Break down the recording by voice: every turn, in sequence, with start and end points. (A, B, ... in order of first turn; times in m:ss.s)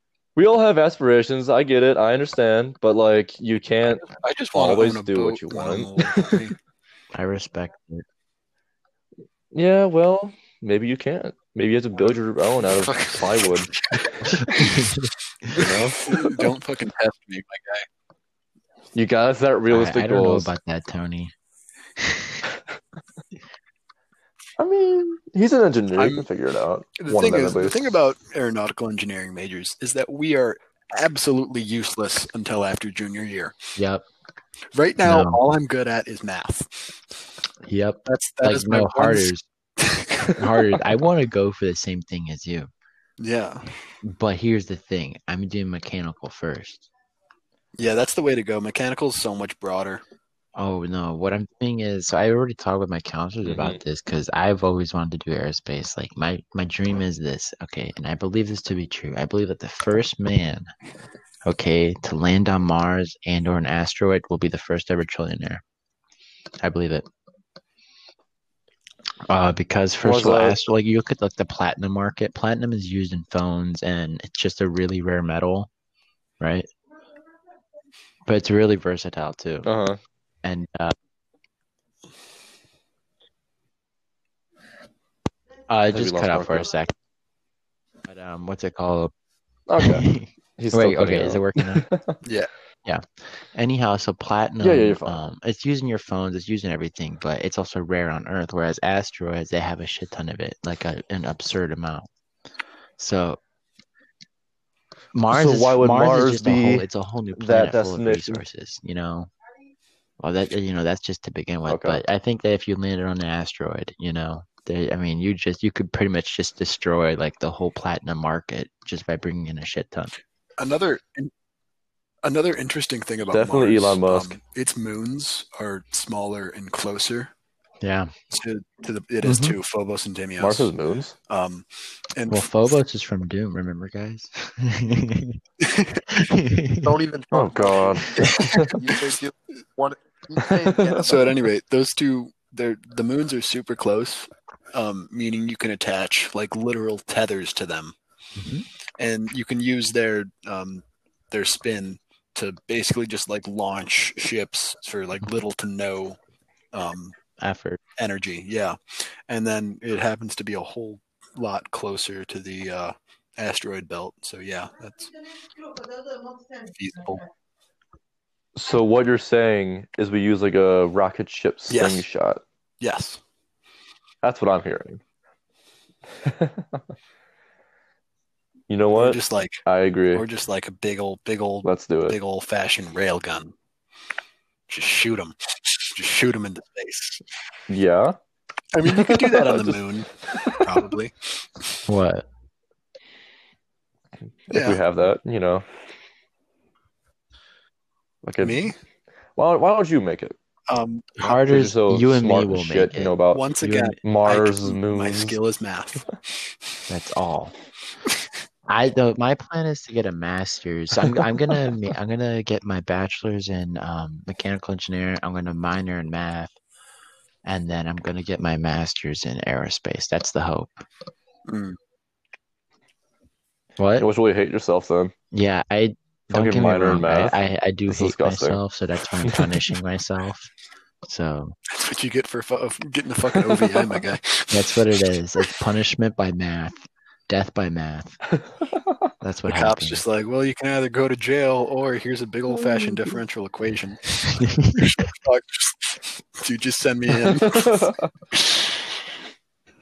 0:00.4-0:06.4 A
0:04.0-0:06.5 B
0:07.1-0:08.0 C
0:09.5-0:13.7 A
0:12.8-0:14.8 B
0:14.2-0:15.1 C
0:15.5-0:17.9 B
0:15.5-0:16.4 A
0:18.9-0:20.5 A
0:19.7-0:21.3 C
0:22.0-0:22.4 C
0:24.6-0:27.9 A
0:25.9-0:26.2 B
0:27.0-0:33.6 B
0:33.8-0:34.0 C
0:34.7-0:37.0 B
0:35.0-0:35.4 C
0:37.6-0:39.4 C
0:38.0-0:40.4 B
0:40.4-0:42.7 C
0:43.2-0:43.7 B
0:44.0-0:46.9 C
0:47.8-0:50.0 B
0:50.6-1:00.7 C
0:53.4-0:53.8 A
1:01.4-1:05.6 C
1:06.6-1:07.0 C
1:09.3-1:15.7 C
1:10.0-1:10.6 A
1:16.4-1:16.7 C
1:18.2-1:19.7 C
1:19.6-1:20.0 A
1:20.4-1:20.9 C
1:25.7-1:26.9 C
1:25.9-1:26.7 A
1:28.0-1:29.1 C
1:29.7-1:30.1 A
1:29.8-1:31.9 C
1:30.6-1:32.2 A
1:32.2-1:32.5 B
1:32.8-1:42.1 C
1:34.6-1:35.2 A
1:43.0-1:43.4 C
1:45.1-1:49.3 C
1:45.3-1:48.4 A
1:50.2-2:00.1 C
1:51.7-1:52.0 A
2:00.6-2:01.3 B
2:02.2-2:07.3 B
2:03.3-2:04.4 A
2:07.8-2:08.1 C
2:08.3-2:10.7 B
2:09.2-2:09.6 C
2:10.4-2:11.1 A
2:11.3-2:12.4 B
2:12.3-2:15.4 C
2:15.6-2:16.0 B
2:16.1-2:16.9 C
2:16.8-2:21.4 D
2:17.3-2:18.8 A
2:18.2-2:18.7 B
2:20.7-2:21.0 A
2:21.0-2:28.0 B
2:28.4-2:28.6 C
2:29.0-2:36.2 B
2:36.7-2:37.1 B
2:37.4-2:37.8 C
2:38.0-2:45.1 B
2:46.6-2:47.2 B
2:48.6-2:52.4 A
2:51.7-2:52.0 B
2:52.8-2:53.2 B
2:54.2-2:55.0 A
2:56.2-2:56.8 A
2:58.7-3:00.2 A
2:58.9-2:59.6 B
3:00.1-3:03.5 B
3:01.6-3:02.2 A
3:04.7-3:07.2 B
3:07.7-3:08.2 A
3:08.7-3:11.8 B
3:08.9-3:09.8 A
3:10.3-3:10.6 A
3:11.9-3:12.2 C
3:14.5-3:15.6 A
3:14.5-3:14.8 B
3:18.2-3:18.6 A
3:18.4-3:18.8 B
3:19.4-3:20.3 A
3:20.7-3:21.4 B
3:21.2-3:24.0 C
3:21.4-3:25.4 A
3:23.3-3:26.5 B
3:26.9-3:27.5 C
3:28.7-3:36.5 C
3:37.4-3:40.8 C
3:41.5-3:41.8 B
3:43.8-3:44.0 C
3:44.0-3:45.1 A
3:45.3-3:50.5 C
3:46.3-3:48.6 A
3:49.2-3:49.7 A
3:51.0-3:51.6 C
3:51.7-3:54.7 B
3:54.5-3:58.2 C
3:59.2-4:00.0 C
3:59.5-4:04.1 B
4:04.2-4:04.9 C
4:04.7-4:08.9 B
4:07.2-4:08.1 A